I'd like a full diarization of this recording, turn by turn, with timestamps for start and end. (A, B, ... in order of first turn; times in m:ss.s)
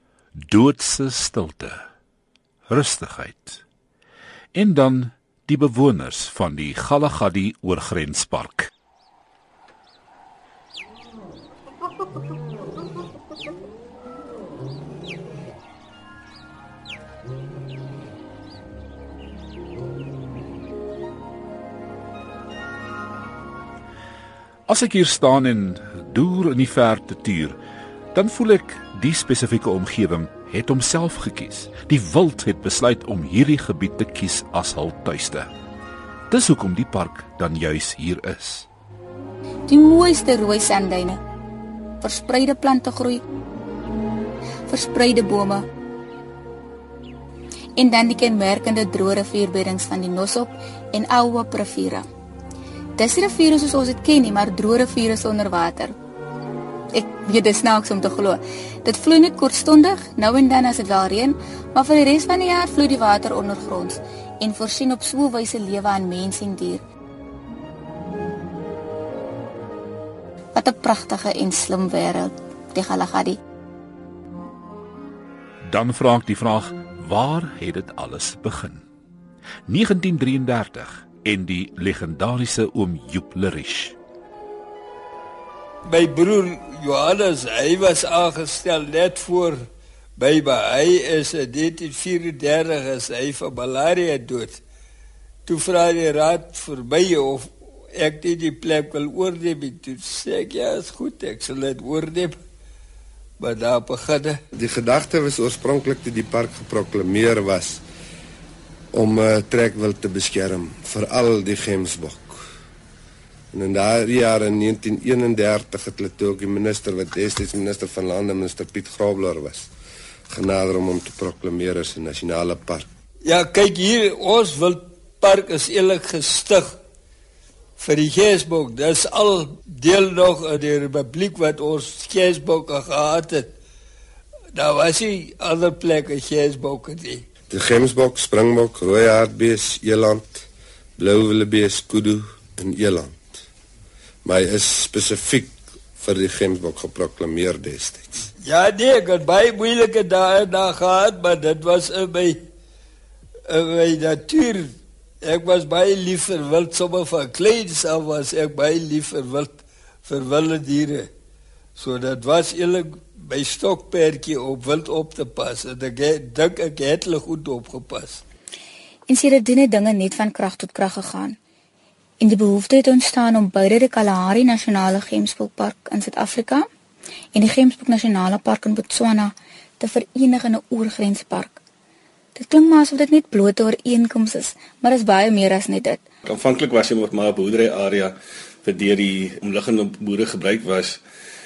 0:00.4-0:01.8 A
0:02.7-0:03.6 A
0:04.5-0:08.7 A
0:24.7-0:27.6 A
0:28.1-0:35.5 A
0:36.3-0:38.7 A
0:39.7-0:41.2 B
0:42.0-0:43.2 B
0:44.7-0:45.7 B
0:47.8-0:52.1 B
0:53.0-0:56.0 B
0:56.9-1:06.8 B
1:10.6-1:13.4 B
1:15.6-1:18.8 A
1:19.7-1:24.0 A
1:25.9-1:34.6 C
1:35.5-1:42.4 C
1:43.4-1:44.4 C
1:44.5-1:47.8 D
1:48.9-1:52.4 D
1:53.5-1:59.7 D
2:00.3-2:02.9 D
2:03.2-2:06.8 C
2:07.8-2:13.5 C
2:14.5-2:17.3 C
2:17.5-2:20.4 D
2:21.0-2:23.4 D
2:24.2-2:28.3 D
2:28.4-2:32.4 C
2:33.5-2:41.1 C
2:41.8-2:48.2 C
2:49.1-2:51.4 B
2:52.2-2:56.7 B
2:57.3-3:01.6 B
3:02.4-3:06.0 B
3:06.2-3:11.0 E